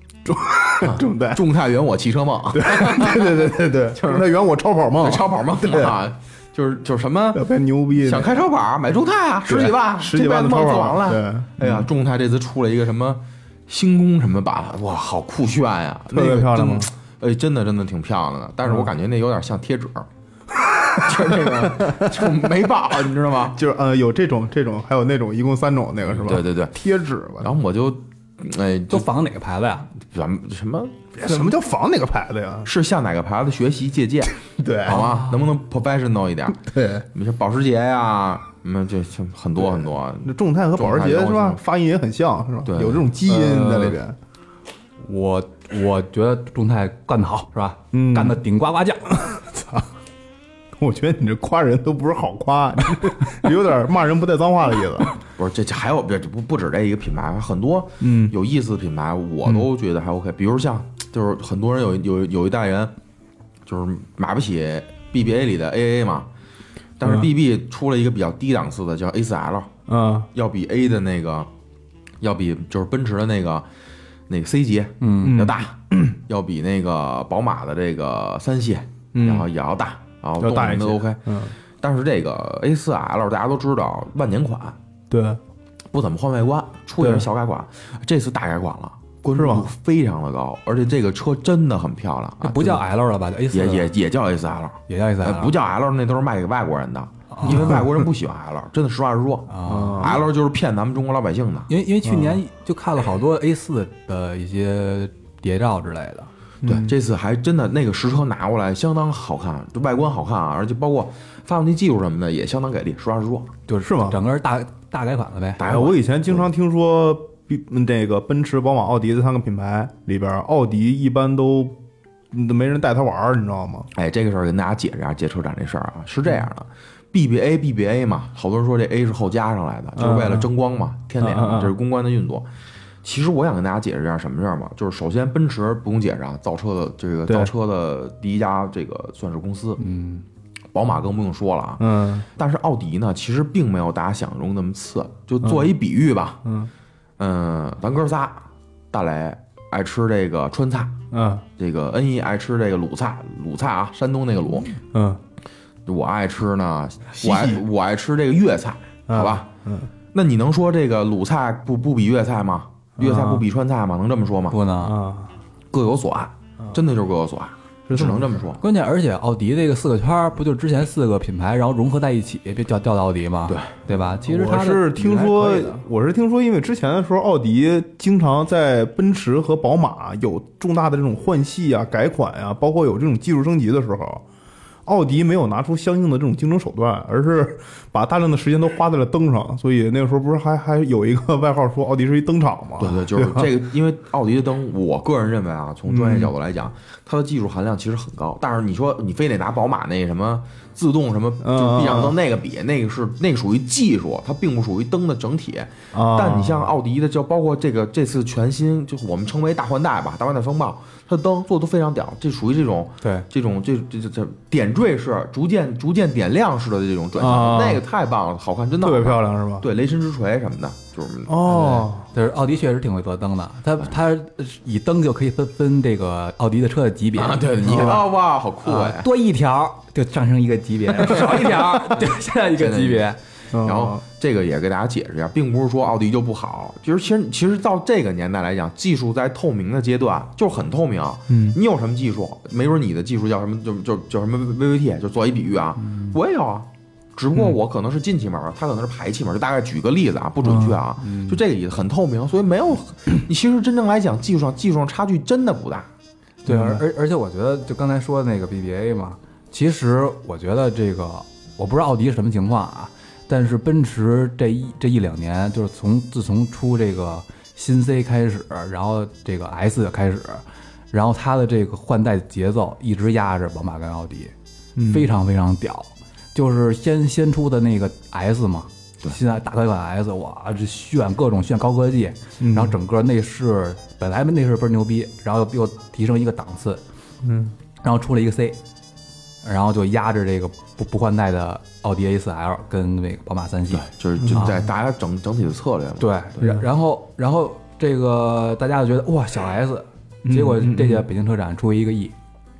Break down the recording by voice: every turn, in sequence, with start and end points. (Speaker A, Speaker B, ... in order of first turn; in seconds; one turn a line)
Speaker A: 0.2-1.4
Speaker B: 0.8-4.3
Speaker A: 2.5-5.9
Speaker B: 5.0-20.1
Speaker A: 7.3-8.5
Speaker A: 9.5-11.9
Speaker A: 16.1-16.9
Speaker B: 21.0-23.6
Speaker A: 21.2-22.2
Speaker A: 23.5-27.5
Speaker B: 26.1-26.7
Speaker B: 27.4-29.1
Speaker C: 28.9-29.9
Speaker B: 30.0-31.5
Speaker A: 31.2-32.7
Speaker B: 32.6-36.6
Speaker A: 34.6-35.0
Speaker C: 34.9-35.4
Speaker A: 36.6-37.0
Speaker B: 37.1-41.6
Speaker A: 40.2-44.2
Speaker B: 42.6-43.1
Speaker C: 43.2-44.0
Speaker C: 45.0-49.1
Speaker A: 47.9-48.4
Speaker A: 49.1-49.9
Speaker A: 50.8-55.1
Speaker B: 55.4-62.9
Speaker A: 58.0-58.3
Speaker B: 63.6-66.3
Speaker B: 67.0-69.7
Speaker A: 67.0-67.3
Speaker A: 69.9-70.3
Speaker B: 70.3-71.5
Speaker B: 72.2-73.7
Speaker B: 74.3-81.2
Speaker C: 75.0-75.4
Speaker A: 75.2-76.1
Speaker A: 79.1-79.5
Speaker A: 80.4-81.5
Speaker B: 81.8-84.8
Speaker A: 85.1-85.4
Speaker B: 85.9-92.8
Speaker A: 87.0-87.3
Speaker A: 89.3-89.7
Speaker C: 92.4-93.9
Speaker B: 93.5-101.7
Speaker C: 94.9-95.5
Speaker C: 97.3-97.9
Speaker A: 97.4-98.0
Speaker C: 99.5-100.2
Speaker A: 99.6-100.2
Speaker C: 101.7-106.3
Speaker A: 102.0-102.4
Speaker A: 106.6-106.9
Speaker B: 106.6-113.5
Speaker C: 113.7-115.7
Speaker A: 113.8-114.2
Speaker B: 115.6-116.4
Speaker A: 115.6-121.8
Speaker A: 122.3-123.9
Speaker B: 123.9-132.5
Speaker A: 130.0-130.5
Speaker A: 131.2-131.7
Speaker B: 133.0-139.8
Speaker A: 137.3-137.5
Speaker C: 139.8-140.2
Speaker B: 140.7-146.4
Speaker A: 141.8-142.2
Speaker A: 145.4-145.7
Speaker A: 146.4-146.7
Speaker B: 147.2-150.9
Speaker A: 151.1-151.4
Speaker B: 151.6-154.8
Speaker A: 154.9-155.2
Speaker B: 155.8-159.4
Speaker A: 157.1-157.6
Speaker A: 159.1-159.9
Speaker B: 160.1-164.6
Speaker A: 163.0-163.4
Speaker C: 164.5-165.0
Speaker A: 164.8-165.3
Speaker B: 165.7-168.6
Speaker A: 167.9-168.4
Speaker C: 168.6-175.8
Speaker B: 173.5-173.8
Speaker A: 174.2-184.2
Speaker A: 184.8-193.5
Speaker B: 192.8-221.4
Speaker A: 195.9-196.3
Speaker A: 201.4-202.2
Speaker A: 205.9-206.7
Speaker C: 213.0-213.3
Speaker A: 217.2-217.8
Speaker A: 218.8-219.7
Speaker A: 221.3-222.1
Speaker C: 221.4-228.0
Speaker B: 227.1-229.1
Speaker A: 227.6-228.0
Speaker C: 228.6-233.2
Speaker B: 231.1-231.7
Speaker B: 232.5-233.1
Speaker A: 233.5-234.0
Speaker B: 233.6-255.9
Speaker A: 241.3-241.6
Speaker A: 250.4-250.8
Speaker C: 251.0-251.4
Speaker C: 256.4-274.3
Speaker A: 256.5-256.8
Speaker A: 274.8-275.1
Speaker C: 274.9-286.8
Speaker A: 282.4-282.8
Speaker A: 287.2-287.5
Speaker C: 287.8-288.6
Speaker C: 289.4-294.6
Speaker B: 293.7-296.4
Speaker A: 294.2-294.6
Speaker C: 296.0-302.1
Speaker A: 296.4-296.6
Speaker A: 300.2-301.1